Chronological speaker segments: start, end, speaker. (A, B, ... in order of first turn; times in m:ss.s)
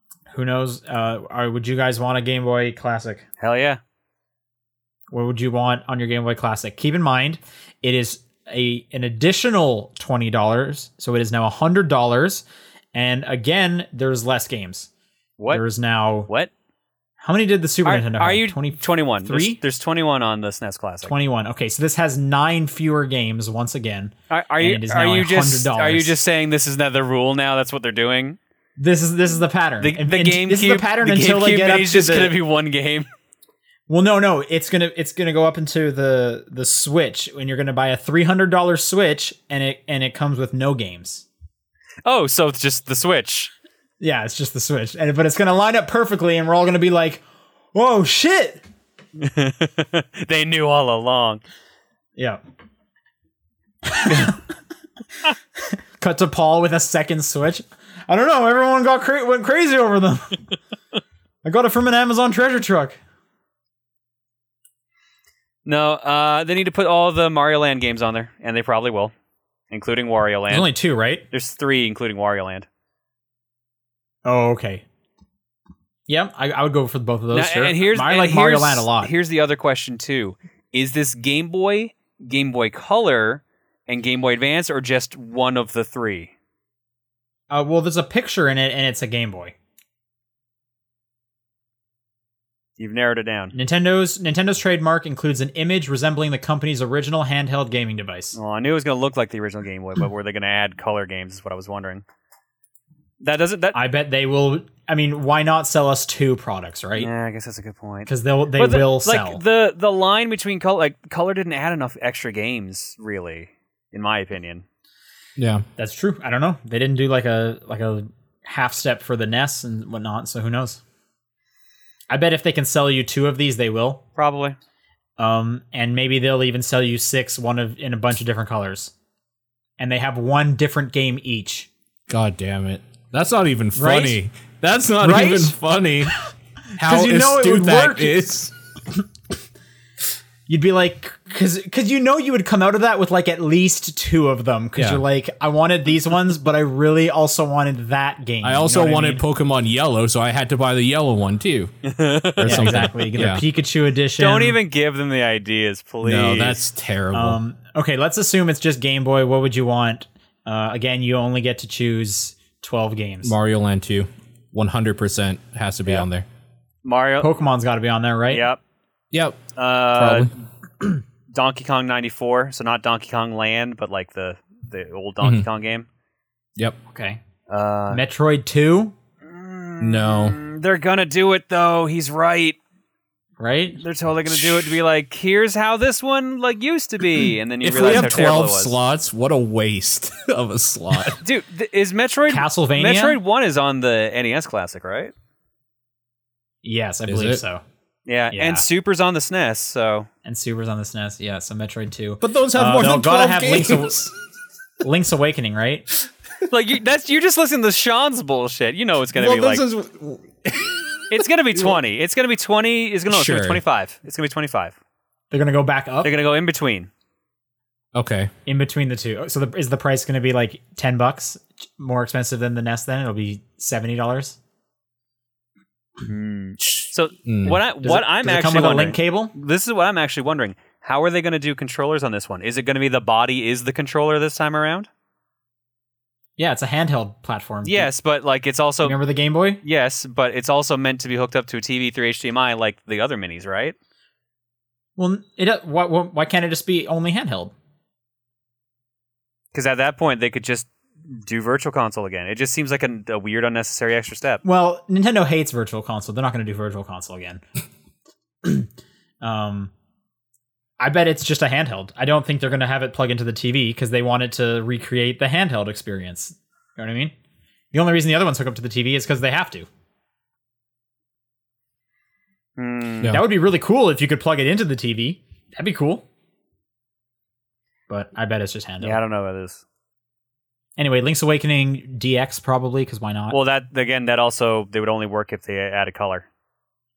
0:00.3-0:03.2 A
0:03.4-0:03.8 B
0:05.1-0:14.9 A
0:15.5-0:16.3 A
0:17.2-0:19.6 A
0:17.8-0:21.1 B
0:21.0-0:26.2 A
0:24.3-0:28.4 B
0:28.8-0:32.4 A
0:29.8-0:33.1 B
0:33.9-0:41.3 A
0:42.0-0:43.5 B
0:44.0-0:47.2 A
0:47.7-0:48.6 A
0:49.2-0:51.4 B
0:53.9-0:54.4 A
0:55.7-1:00.4 A
1:01.4-1:03.0 A
1:05.6-1:09.1 B
1:09.7-1:10.7 B
1:10.5-1:11.2 A
1:11.3-1:12.7 B
1:14.2-1:14.8 A
1:16.1-1:19.1 A
1:17.3-1:26.3 B
1:27.5-1:29.5 A
1:32.8-1:33.5 B
1:33.5-1:38.4 A
1:38.4-1:42.0 B
1:43.2-1:43.8 B
1:43.7-1:47.1 A
1:47.0-1:54.6 B
1:48.1-1:49.4 A
1:55.4-1:55.6 C
1:55.8-2:00.8 A
2:02.1-2:04.0 A
2:04.2-2:04.6 B
2:05.2-2:08.9 A
2:09.8-2:11.7 A
2:12.1-2:16.2 C
2:13.8-2:14.2 A
2:15.0-2:15.6 A
2:16.8-2:18.5 C
2:16.8-2:18.3 A
2:20.5-2:29.2 A
2:24.8-2:25.0 C
2:28.4-2:31.7 C
2:31.8-2:32.9 B
2:32.4-2:33.4 C
2:32.4-2:34.6 A
2:34.2-2:36.6 B
2:36.0-2:37.4 C
2:37.1-2:43.4 A
2:43.2-2:46.3 C
2:46.8-2:47.3 B
2:47.2-2:48.4 A
2:48.3-2:48.6 B
2:49.1-2:49.4 C
2:49.6-2:50.3 B
2:50.0-2:50.3 C
2:51.3-2:55.9 B
2:55.2-2:55.5 C
2:56.9-2:57.2 A
2:57.5-2:58.0 B
2:57.9-2:59.0 A
2:59.2-3:02.6 B
2:59.8-3:00.4 C
3:03.4-3:03.8 A
3:03.8-3:08.8 B
3:04.3-3:04.7 C
3:07.6-3:11.2 C
3:11.2-3:15.1 B
3:12.3-3:13.2 A
3:16.6-3:17.6 A
3:17.1-3:17.4 C
3:18.1-3:20.1 B
3:18.3-3:18.7 A
3:20.2-3:24.1 A
3:22.2-3:24.1 C
3:24.8-3:25.9 A
3:26.5-3:29.6 B
3:29.1-3:31.8 C
3:31.1-3:34.8 B
3:33.1-3:33.6 C
3:35.3-3:36.1 A
3:36.0-3:36.9 B
3:38.0-3:38.3 C
3:38.5-3:44.4 A
3:46.0-3:54.9 B
3:46.6-3:47.6 C
3:47.8-3:49.3 A
3:56.4-3:57.9 A
3:57.6-3:59.0 B
3:58.8-3:59.6 A
3:59.6-4:03.8 B
4:05.0-4:07.5 A
4:09.5-4:14.4 B
4:14.4-4:17.4 A
4:18.4-4:18.7 A
4:19.2-4:19.7 A
4:20.8-4:27.1 A
4:27.7-4:29.7 A
4:32.6-4:33.2 B
4:33.0-4:36.0 A
4:37.9-4:39.0 A
4:38.8-4:39.6 B
4:40.8-4:43.4 A
4:43.3-4:46.3 B